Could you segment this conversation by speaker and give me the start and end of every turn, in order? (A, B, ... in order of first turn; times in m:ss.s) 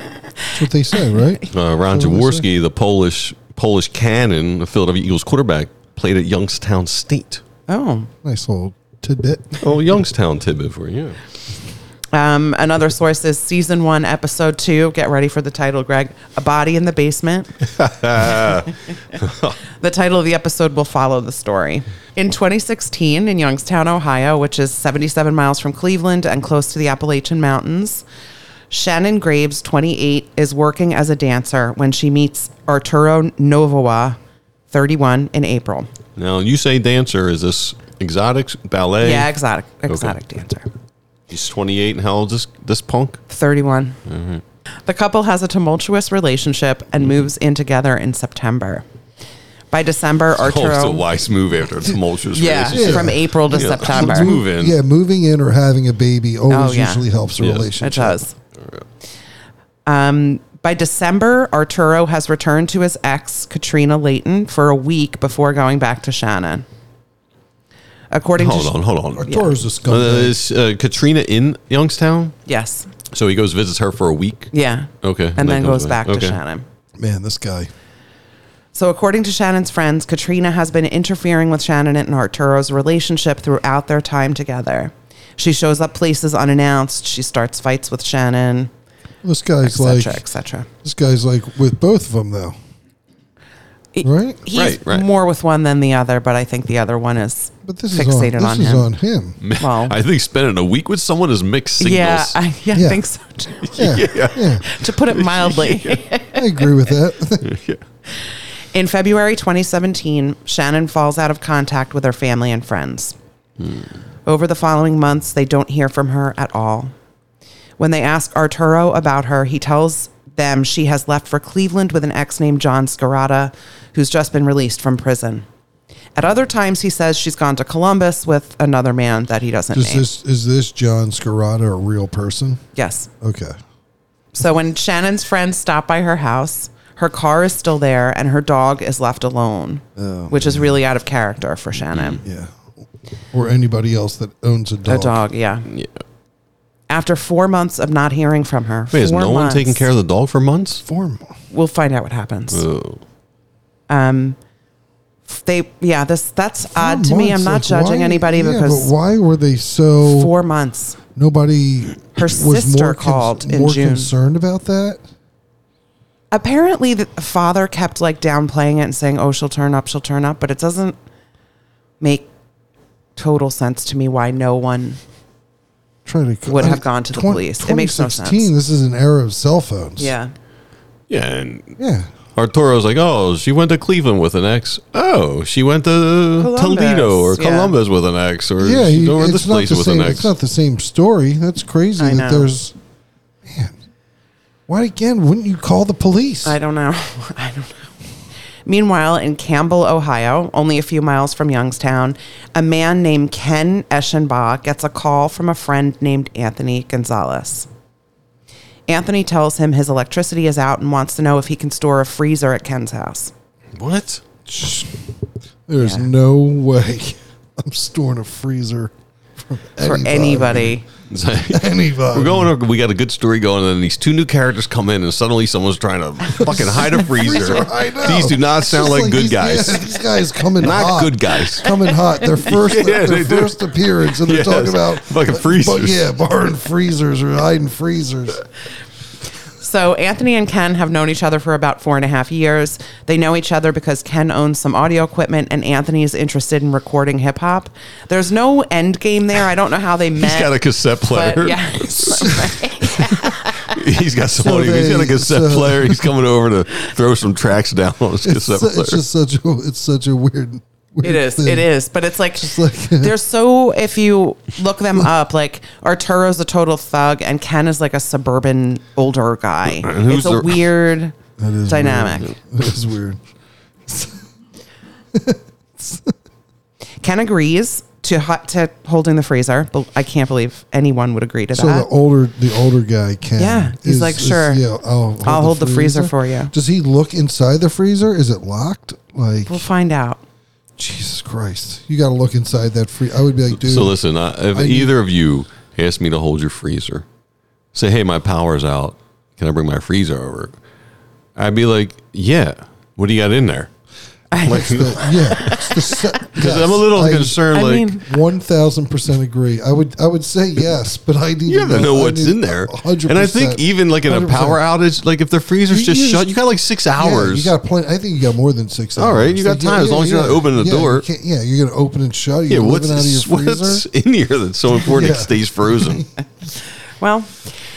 0:00.5-0:02.4 A
0:01.5-0:07.4 B
0:07.7-0:08.1 C
0:08.2-0:09.6 A
0:09.6-0:11.2 B
0:12.1-0:17.5 C
0:17.7-0:19.6 B
0:19.8-0:28.0 C
0:28.7-0:34.2 C
0:34.7-0:35.9 C
0:36.2-0:39.3 B
0:39.0-0:40.7 C
0:39.9-0:40.2 B
0:41.3-0:43.2 B
0:43.3-0:44.0 C
0:44.1-0:44.4 B
0:44.9-0:48.8 C
0:49.7-0:51.0 C
0:50.4-0:54.8 B
0:52.3-0:54.3 C
0:52.7-0:53.3 A
0:53.9-0:58.2 A
0:56.5-0:57.0 C
0:57.4-0:57.7 B
0:57.8-0:58.3 C
0:58.6-0:58.8 B
0:59.9-1:06.6 C
1:08.1-1:08.8 C
1:08.4-1:09.4 B
1:09.2-1:10.4 A
1:09.9-1:12.4 B
1:12.5-1:12.9 C
1:13.1-1:16.4 B
1:14.5-1:16.6 C
1:17.0-1:17.7 A
1:18.7-1:28.7 C
1:29.2-1:30.2 A
1:29.6-1:30.7 C
1:30.8-1:32.6 A
1:33.9-1:38.9 C
1:34.0-1:34.4 A
1:34.5-1:35.1 B
1:37.6-1:39.4 A
1:39.4-1:42.4 B
1:39.6-1:40.0 C
1:41.8-1:44.0 C
1:42.7-1:43.0 A
1:43.6-1:46.0 B
1:43.8-1:44.7 A
1:44.6-1:46.7 C
1:46.3-1:47.5 A
1:47.4-1:47.8 B
1:48.2-1:53.2 C
1:53.6-1:53.9 B
1:54.2-1:56.9 C
1:57.8-2:05.5 C
2:06.2-2:10.1 C
2:09.7-2:12.6 A
2:12.8-2:13.1 C
2:13.2-2:13.6 A
2:14.3-2:22.2 C
2:20.0-2:20.7 A
2:21.9-2:22.2 B
2:22.2-2:22.6 A
2:23.3-2:25.2 A
2:24.9-2:25.7 C
2:25.7-2:26.0 B
2:26.9-2:29.8 C
2:28.9-2:30.8 B
2:30.8-2:31.3 A
2:31.5-2:32.6 C
2:32.5-2:33.0 B
2:33.9-2:34.4 C
2:35.3-2:38.9 C
2:36.8-2:40.3 A
2:40.0-2:41.0 C
2:41.2-2:45.0 A
2:42.2-2:44.1 C
2:46.3-2:51.0 C
2:52.0-2:52.3 C
2:53.2-2:55.0 C
2:56.1-3:00.1 A
2:56.5-2:58.5 C
3:00.0-3:00.3 C
3:01.1-3:01.8 B
3:01.8-3:02.1 A
3:02.4-3:10.3 B
3:06.4-3:07.7 C
3:08.6-3:12.8 A
3:12.0-3:12.5 C
3:13.4-3:13.8 A
3:14.7-3:16.6 A
3:16.4-3:17.9 C
3:18.6-3:27.7 C
3:28.9-3:33.3 C
3:33.8-3:34.2 B
3:34.5-3:35.0 A
3:35.7-3:40.8 A
3:35.8-3:36.1 C
3:39.8-3:40.9 C
3:41.1-3:49.9 B
3:41.5-3:42.5 A
3:46.4-3:58.4 A
3:50.6-3:51.8 B
3:52.5-3:56.1 B
3:59.6-4:13.8 C
4:10.2-4:19.0 B
4:14.4-4:16.0 A
4:18.2-4:21.7 A
4:21.0-4:31.2 C
4:22.4-4:23.2 A
4:29.8-4:30.6 B
4:31.4-4:33.2 A
4:31.7-4:32.4 C
4:33.9-4:34.2 A
4:35.1-4:36.1 A
4:37.0-4:41.9 C
4:41.5-4:49.7 A
4:43.4-4:44.6 C
4:45.2-4:46.5 C
4:49.5-4:50.2 C
4:50.8-4:54.0 A
4:53.5-4:57.0 B
4:54.5-4:54.9 A
4:57.7-5:00.5 B
5:01.4-5:03.7 B
5:04.3-5:06.0 C
5:04.4-5:05.7 B
5:04.4-5:07.4 A
5:06.3-5:08.0 B
5:07.5-5:08.0 C
5:08.0-5:14.6 A
5:11.5-5:17.5 B
5:15.7-5:16.4 A
5:17.0-5:23.8 A
5:19.0-5:21.1 B
5:22.5-5:26.1 B
5:24.8-5:26.1 A
5:26.9-5:27.6 C